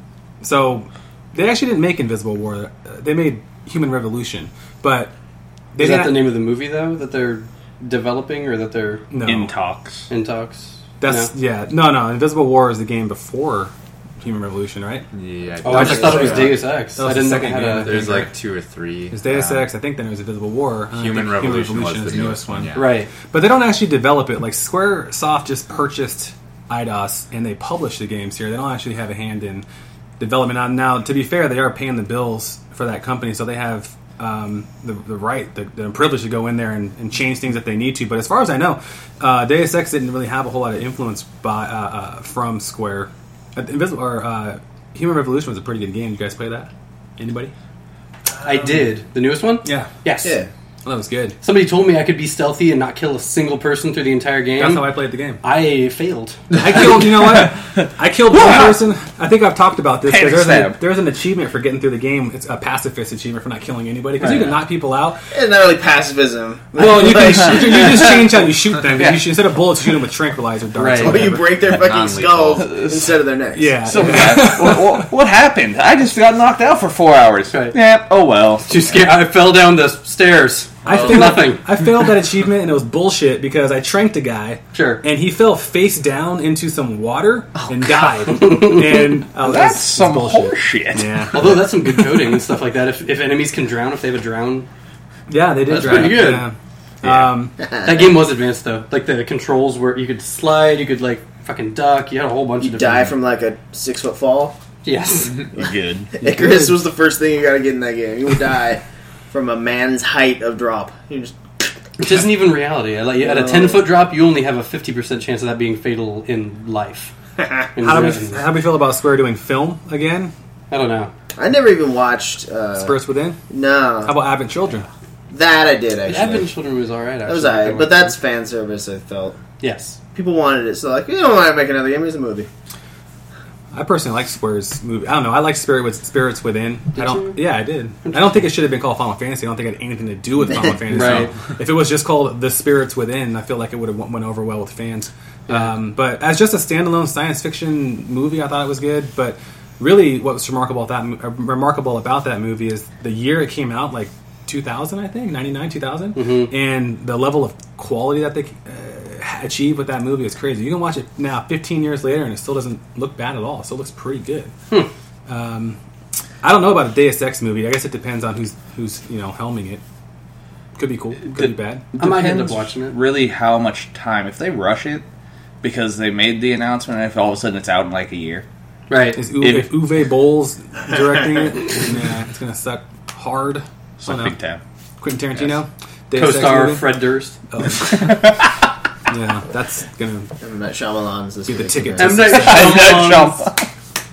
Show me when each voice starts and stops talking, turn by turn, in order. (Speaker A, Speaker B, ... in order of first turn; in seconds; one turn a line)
Speaker A: 0.4-5.1
Speaker A: 5.7-6.3
Speaker B: 5.8-9.1
Speaker A: 9.1-9.5
Speaker C: 9.2-10.1
Speaker B: 10.1-11.3
Speaker A: 11.0-15.1
Speaker D: 15.1-16.6
Speaker B: 15.6-18.0
Speaker A: 15.7-18.3
Speaker E: 15.7-16.6
Speaker D: 17.8-19.7
Speaker A: 19.1-29.6
Speaker D: 20.9-23.0
Speaker B: 22.8-23.1
Speaker A: 30.2-47.5
Speaker B: 48.4-50.4
Speaker A: 49.6-50.0
Speaker E: 50.2-50.5
Speaker A: 50.9-51.4
Speaker B: 51.4-54.9
Speaker A: 54.6-55.4
Speaker B: 55.4-56.4
Speaker A: 56.6-65.3
Speaker C: 56.6-58.8
Speaker C: 60.1-60.8
Speaker B: 64.2-64.6
Speaker E: 65.3-68.1
Speaker A: 66.8-71.7
Speaker C: 69.0-69.3
Speaker B: 70.8-71.3
Speaker E: 70.9-73.8
Speaker D: 71.5-72.8
Speaker C: 72.6-73.1
Speaker A: 73.5-75.1
Speaker C: 73.8-78.8
Speaker B: 77.5-77.8
Speaker B: 78.7-81.6
Speaker A: 80.8-91.5
Speaker D: 80.9-81.4
Speaker B: 84.7-85.0
Speaker B: 88.3-89.1
Speaker C: 89.4-91.6
Speaker B: 91.3-94.7
Speaker A: 95.3-97.5
Speaker B: 95.7-96.5
Speaker C: 97.0-97.3
Speaker E: 97.6-98.1
Speaker B: 97.8-103.1
Speaker E: 102.6-104.6
Speaker B: 104.8-105.4
Speaker C: 105.5-106.1
Speaker E: 105.5-111.4
Speaker A: 106.2-106.9
Speaker B: 112.0-117.1
Speaker E: 113.2-113.8
Speaker B: 117.7-118.5
Speaker A: 117.8-120.3
Speaker B: 120.7-121.1
Speaker E: 121.3-123.0
Speaker A: 122.8-123.4
Speaker E: 123.5-124.2
Speaker A: 124.0-124.9
Speaker E: 125.3-126.5
Speaker B: 126.0-128.2
Speaker E: 127.2-129.4
Speaker B: 129.6-130.0
Speaker E: 130.1-132.5
Speaker A: 133.7-164.5
Speaker B: 136.9-138.5
Speaker B: 140.9-141.3
Speaker B: 145.5-145.7
Speaker B: 156.2-156.5
Speaker A: 165.3-165.8
Speaker A: 166.4-169.8
Speaker A: 170.8-171.8
Speaker C: 171.9-175.0
Speaker B: 172.0-173.0
Speaker C: 175.6-178.4
Speaker B: 178.9-179.3
Speaker A: 179.2-184.3
Speaker C: 179.4-179.7
Speaker C: 184.0-184.6
Speaker A: 185.0-186.9
Speaker B: 186.1-187.4
Speaker A: 187.5-188.5
Speaker A: 189.1-190.3
Speaker E: 190.4-192.3
Speaker A: 191.5-192.9
Speaker B: 192.0-193.5
Speaker C: 192.3-193.7